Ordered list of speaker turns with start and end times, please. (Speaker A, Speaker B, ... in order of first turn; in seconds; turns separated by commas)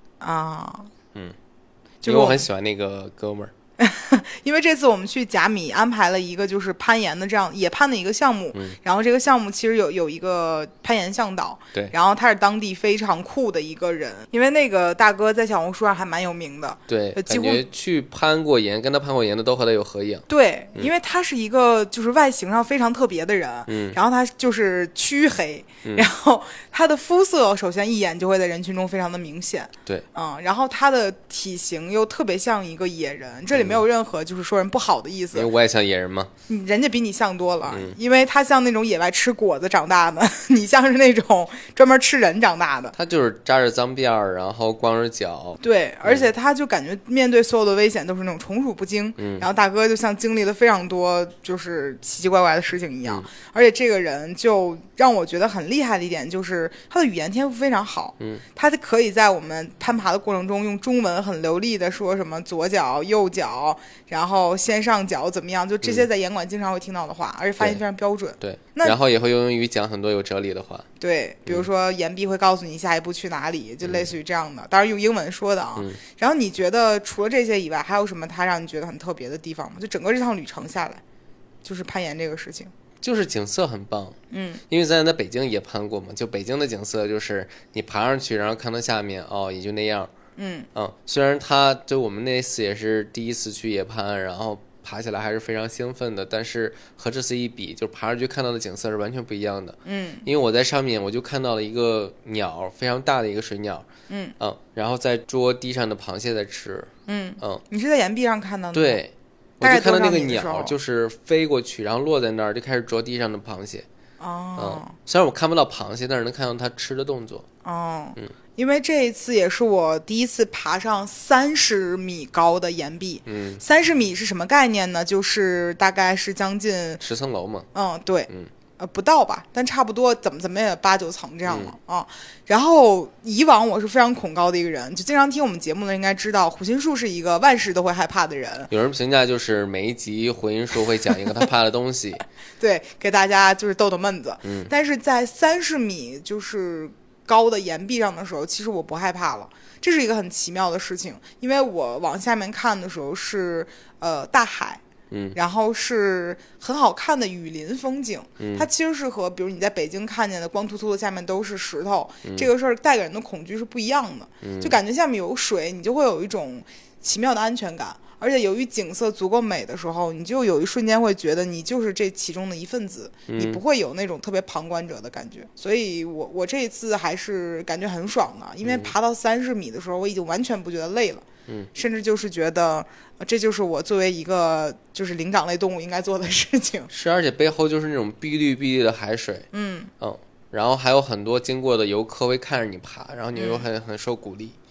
Speaker A: 0.2-0.9, Speaker A: 2.0-2.5, Speaker B: 2.0-3.5, Speaker A: 3.8-17.6, Speaker B: 16.9-20.2, Speaker A: 20.3-35.5, Speaker B: 23.7-24.0, Speaker B: 33.5-33.8, Speaker B: 35.3-36.3, Speaker A: 36.5-43.0, Speaker B: 37.7-38.0, Speaker B: 43.0-46.3, Speaker A: 45.6-69.0, Speaker B: 49.2-49.5, Speaker B: 68.4-70.9, Speaker A: 71.0-81.0, Speaker B: 73.8-74.1, Speaker A: 81.6-82.7, Speaker B: 83.0-84.2, Speaker A: 84.3-84.6, Speaker B: 84.7-90.1, Speaker A: 90.4-90.7, Speaker B: 90.8-103.9, Speaker A: 99.8-100.3, Speaker A: 104.1-104.3, Speaker B: 104.4-107.6, Speaker A: 107.1-109.0, Speaker B: 108.7-113.9, Speaker A: 109.6-110.8, Speaker A: 114.2-115.0, Speaker B: 114.6-117.5, Speaker A: 117.6-127.0, Speaker B: 123.3-123.6, Speaker B: 127.0-127.7, Speaker A: 127.7-138.7, Speaker B: 131.5-131.7, Speaker B: 138.7-142.2, Speaker A: 142.6-154.8, Speaker B: 144.4-144.7, Speaker B: 155.1-155.4, Speaker A: 155.3-186.9, Speaker B: 158.4-158.7, Speaker B: 164.4-164.8, Speaker B: 173.3-173.6, Speaker B: 178.6-178.9, Speaker B: 186.9-189.5, Speaker A: 189.5-189.9, Speaker B: 190.0-194.6, Speaker A: 193.3-193.7